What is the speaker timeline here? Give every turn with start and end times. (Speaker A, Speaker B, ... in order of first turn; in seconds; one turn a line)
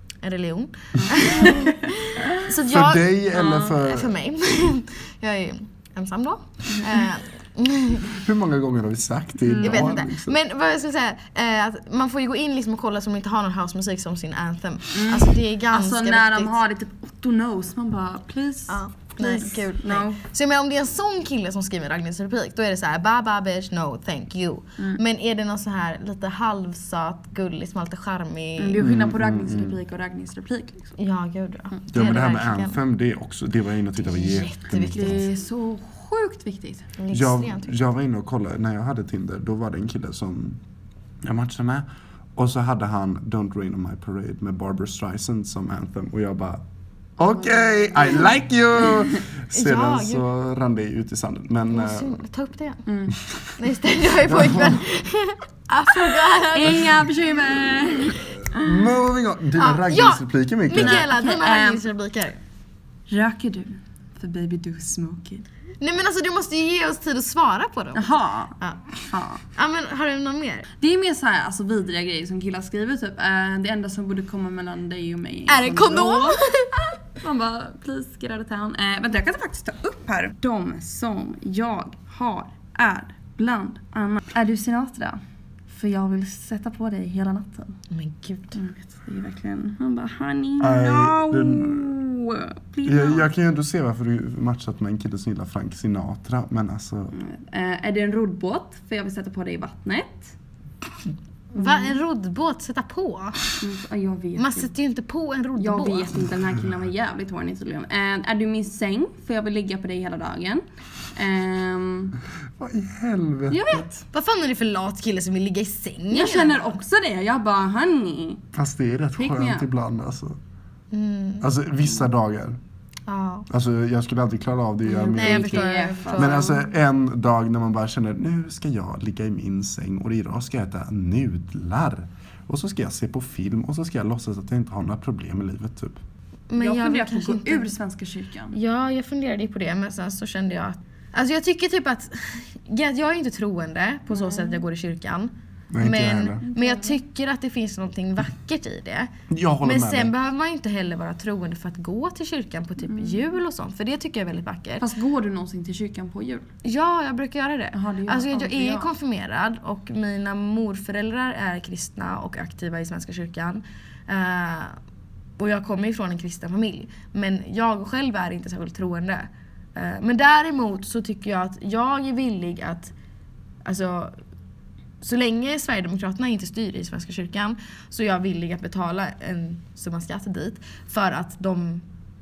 Speaker A: 0.2-8.1
Speaker B: 1.4-1.7
Speaker C: 2.6-4.1
Speaker B: 3.3-3.7
Speaker C: 8.1-10.3
Speaker B: 9.4-9.9
Speaker A: 9.6-16.6
Speaker B: 14.9-20.2
Speaker A: 18.7-28.8
Speaker B: 28.6-31.0
Speaker C: 28.8-29.8
Speaker A: 31.0-32.8
Speaker C: 31.9-35.2
Speaker A: 34.0-35.3
Speaker B: 35.0-37.0
Speaker A: 37.0-37.7
Speaker C: 37.1-40.6
Speaker C: 41.2-46.6
Speaker C: 47.2-52.1
Speaker B: 47.5-48.2
Speaker A: 49.5-50.2
Speaker A: 51.7-52.9
Speaker B: 52.9-53.1
Speaker A: 53.6-56.9
Speaker C: 54.2-54.8
Speaker B: 56.5-58.8
Speaker C: 58.5-61.1
Speaker A: 59.6-62.4
Speaker B: 60.7-61.9
Speaker B: 63.1-65.5
Speaker A: 65.8-68.9
Speaker B: 68.0-69.4
Speaker A: 69.5-70.7
Speaker B: 70.8-87.8
Speaker A: 75.5-76.8
Speaker A: 87.9-88.6
Speaker B: 88.5-93.3
Speaker C: 90.6-91.9
Speaker C: 92.8-97.1
Speaker B: 97.1-100.3
Speaker A: 101.5-103.4
Speaker B: 101.6-101.9
Speaker B: 103.6-104.7
Speaker A: 104.4-106.2
Speaker B: 105.6-112.2
Speaker C: 112.6-113.8
Speaker B: 113.5-113.9
Speaker A: 113.5-116.7
Speaker B: 116.1-118.5
Speaker C: 118.5-120.4
Speaker B: 119.2-119.7
Speaker A: 120.9-121.5
Speaker C: 121.4-122.6
Speaker A: 123.1-123.5
Speaker C: 123.5-136.0
Speaker B: 124.8-126.6
Speaker A: 125.1-126.6
Speaker A: 136.5-137.7
Speaker B: 136.6-138.6
Speaker A: 138.5-149.1
Speaker B: 144.1-144.6
Speaker C: 145.7-146.4
Speaker B: 146.5-147.0
Speaker C: 149.3-150.1
Speaker A: 149.6-154.8
Speaker B: 152.9-153.2
Speaker B: 154.8-156.5
Speaker A: 156.6-164.8
Speaker B: 157.7-158.9
Speaker A: 165.4-172.9
Speaker A: 173.6-174.2
Speaker A: 175.0-181.8